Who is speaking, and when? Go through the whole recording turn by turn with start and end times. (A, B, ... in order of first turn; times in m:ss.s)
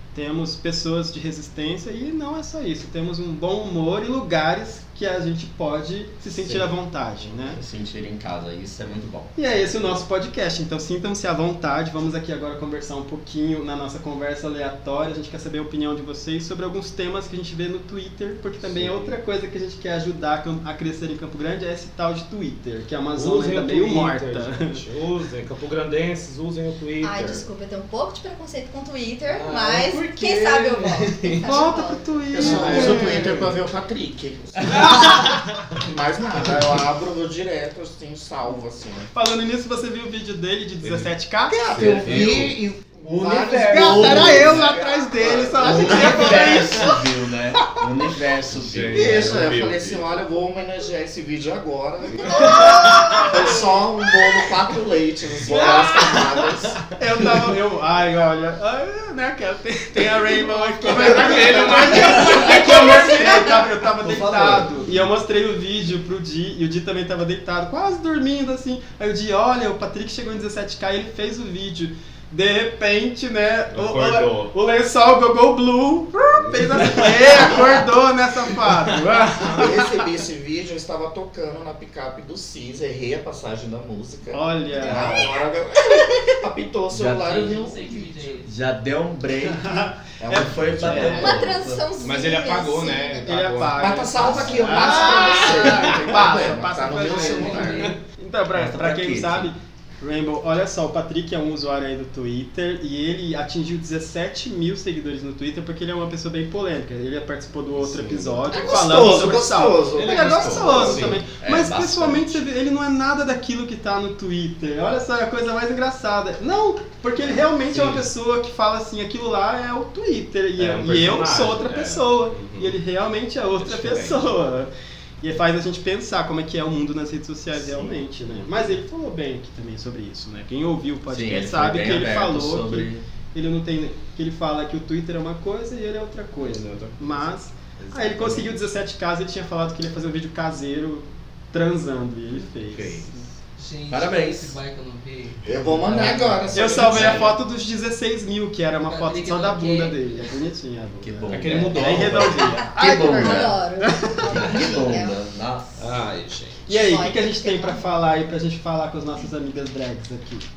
0:00.1-0:07.6 A
0:06.4-0:06.6 B
0:07.2-0:09.7 B
0:09.4-0:24.8 A
0:18.6-0:19.2 C
0:23.1-0:27.5 C
0:27.0-0:32.0 D
0:29.3-0:31.5 C
0:31.4-0:33.4 A
0:32.3-0:39.1 E
0:32.4-0:33.5 C
0:39.1-0:41.9 A
0:40.8-0:41.1 C
0:41.5-0:46.4 E
0:41.7-0:42.6 C
0:41.8-0:49.4 B
0:43.7-0:47.0 A
0:48.5-0:50.1 C
0:48.9-0:56.8 E
0:52.1-0:53.5 C
0:52.3-0:53.5 D
0:55.5-0:56.3 C
0:57.0-1:19.9 A
1:00.8-1:03.4 C
1:02.8-1:03.2 D
1:04.0-1:04.8 B
1:13.7-1:14.5 C
1:16.4-1:17.1 C
1:19.1-1:19.7 C
1:19.6-1:28.1 E
1:24.3-1:25.3 A
1:24.8-1:25.3 D
1:24.9-1:25.2 B
1:26.9-1:27.6 B
1:27.2-1:28.5 F
1:28.4-1:31.8 B
1:29.5-1:31.3 A
1:30.2-1:31.2 E
1:31.0-1:33.4 D
1:32.0-1:34.5 C
1:33.3-2:04.7 A
1:33.8-1:38.0 E
1:34.3-1:35.2 D
1:35.2-1:36.0 C
1:36.8-1:38.0 F
1:38.5-1:39.5 B
1:47.8-1:48.7 C
1:48.5-1:51.2 E
1:50.0-1:51.2 C
1:51.3-1:52.5 B
1:57.7-1:58.1 C
2:00.6-2:02.8 C
2:03.6-2:04.3 C
2:05.2-2:23.2 A
2:07.5-2:08.8 C
2:11.1-2:13.0 B
2:16.4-2:18.7 C
2:22.4-2:23.2 C
2:23.6-2:25.4 F
2:23.9-2:24.6 B
2:25.4-2:27.2 E
2:25.7-2:27.3 C
2:25.8-2:26.3 B
2:26.5-2:34.5 A
2:26.8-2:27.2 B
2:28.8-2:30.0 F
2:31.0-2:33.5 B
2:31.3-2:32.6 C
2:32.7-2:35.2 D
2:34.3-2:35.7 B
2:35.8-2:36.7 C
2:36.7-2:40.5 A
2:36.7-2:37.8 D